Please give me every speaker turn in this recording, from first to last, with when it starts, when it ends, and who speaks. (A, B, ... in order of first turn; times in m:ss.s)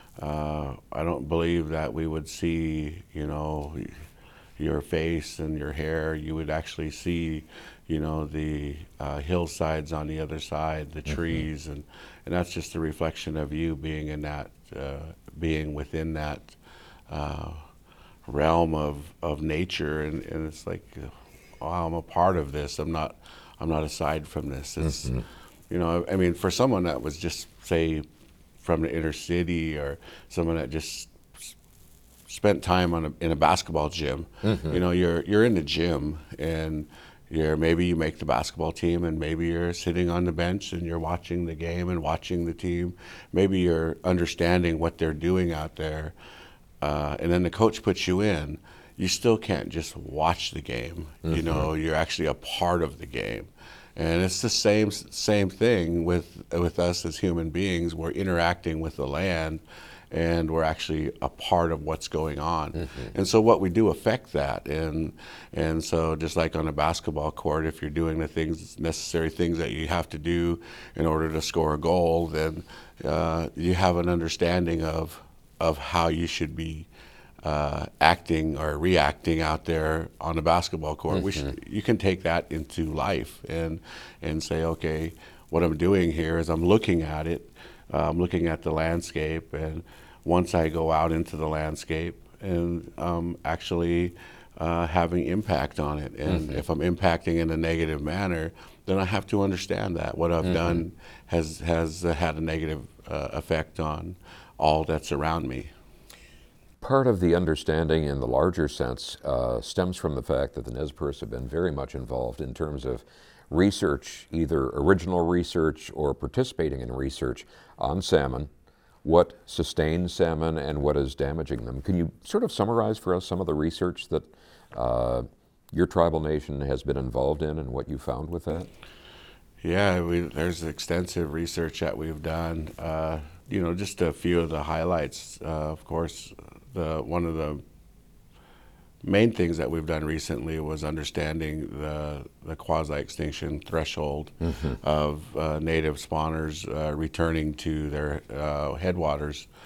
0:00.2-0:04.0 A
0:04.6-0:16.6 A
0:17.1-0:17.7 A
0:18.3-0:28.0 A
0:28.6-0:31.5 A
0:32.3-0:46.1 A
0:34.5-0:34.7 B
0:46.8-1:16.9 A
0:51.3-0:51.6 B
1:17.4-1:45.7 A
1:40.4-1:40.8 B
1:46.8-1:58.5 B
1:59.0-2:08.7 B
2:09.6-2:17.6 A
2:19.0-2:29.5 A